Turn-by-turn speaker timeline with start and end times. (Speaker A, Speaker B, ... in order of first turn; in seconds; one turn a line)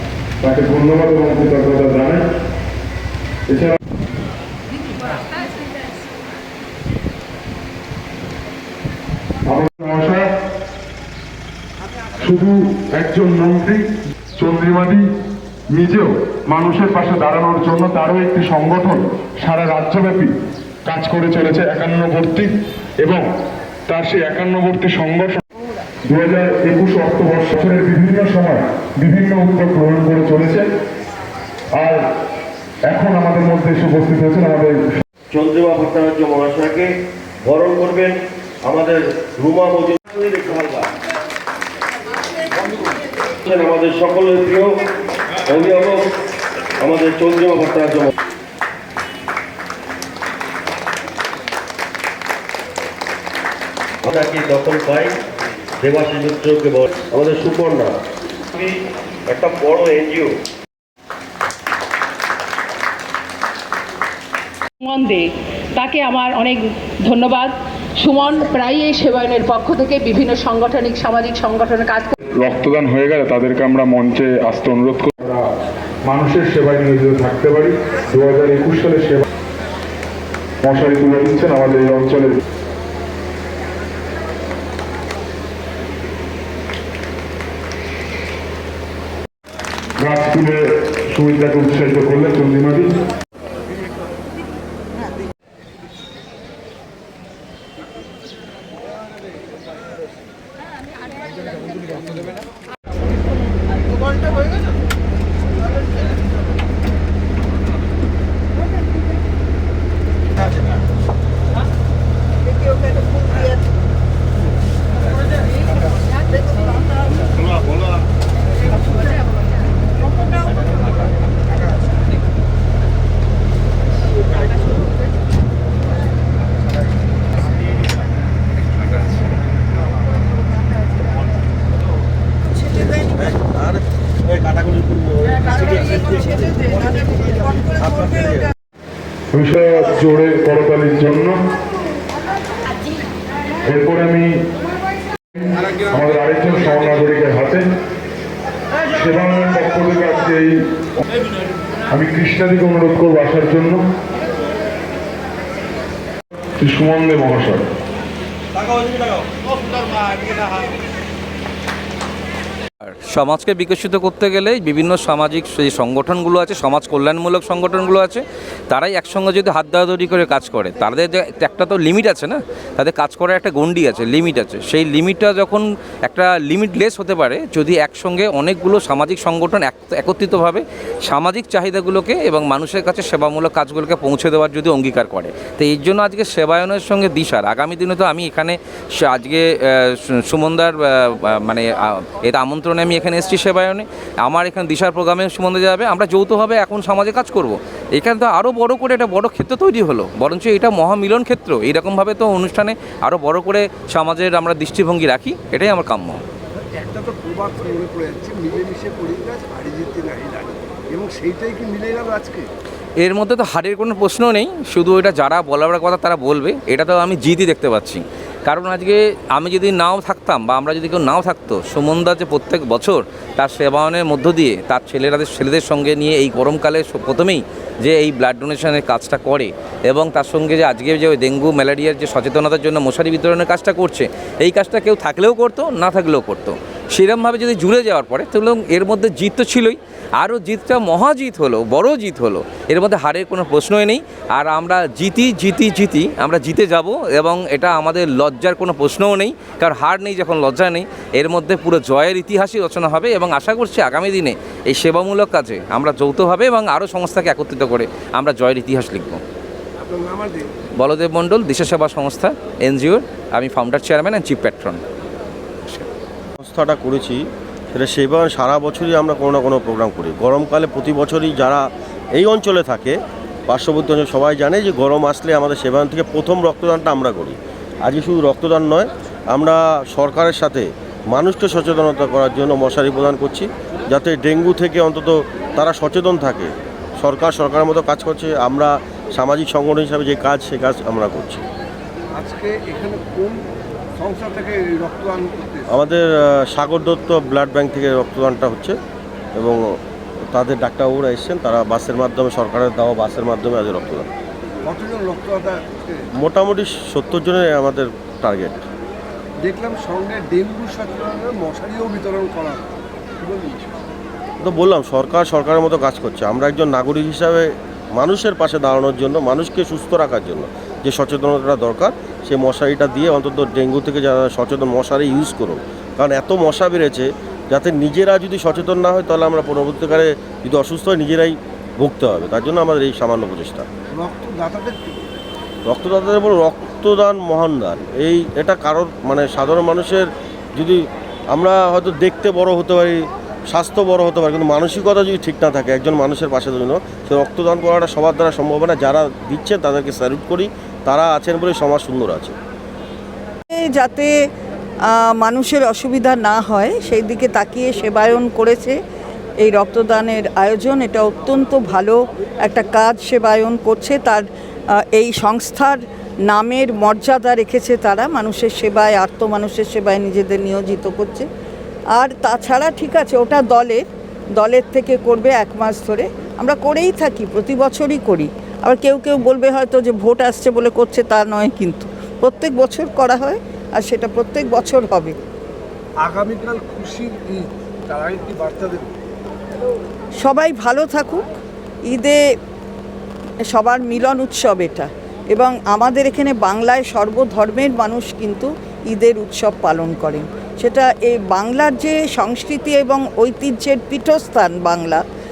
Speaker A: 0.4-2.2
Speaker A: 3.5-3.8
Speaker A: 9.5-10.3
Speaker A: 12.2-13.8
Speaker A: 14.4-15.0
Speaker A: 15.7-20.3
Speaker A: 20.9-23.2
Speaker A: 23.9-25.4
Speaker A: 26.1-30.7
Speaker A: 31.7-32.0
Speaker A: 32.9-34.8
Speaker B: 35.3-40.9
Speaker B: 43.3-44.8
Speaker B: 45.5-46.1
Speaker B: 46.8-48.1
Speaker B: 54.0-55.1
Speaker B: 55.8-57.9
Speaker B: 59.3-60.3
Speaker C: 64.8-72.1
Speaker A: 72.3-75.4
Speaker A: 76.0-79.2
Speaker A: 80.6-82.4
Speaker A: 90.0-92.9
Speaker B: 133.0-136.6
Speaker B: 137.7-138.5
Speaker A: 139.3-141.4
Speaker A: 143.7-144.3
Speaker A: 145.3-147.6
Speaker A: 148.9-150.5
Speaker A: 151.9-153.8
Speaker A: 156.6-157.6
Speaker D: 162.8-206.2
Speaker E: 206.6-212.5
Speaker D: 213.0-259.2
Speaker E: 259.8-260.5
Speaker D: 260.8-264.8
Speaker B: 266.4-291.4
Speaker E: 292.1-293.4
Speaker E: 294.0-295.7
Speaker B: 295.7-298.8
Speaker B: 299.4-299.7
Speaker B: 300.3-304.1
Speaker E: 304.6-306.1
Speaker B: 306.2-308.6
Speaker E: 309.4-312.7
Speaker E: 313.2-313.8
Speaker B: 314.4-333.6
Speaker E: 333.9-335.1
Speaker B: 335.6-352.3
Speaker F: 353.5-354.1
Speaker F: 354.9-358.7
Speaker F: 359.4-364.2
Speaker F: 364.9-371.2
Speaker F: 371.9-373.8
Speaker F: 374.4-385.1
Speaker E: 386.0-388.9
Speaker F: 390.2-391.2
Speaker F: 391.9-392.2
Speaker F: 393.5-405.0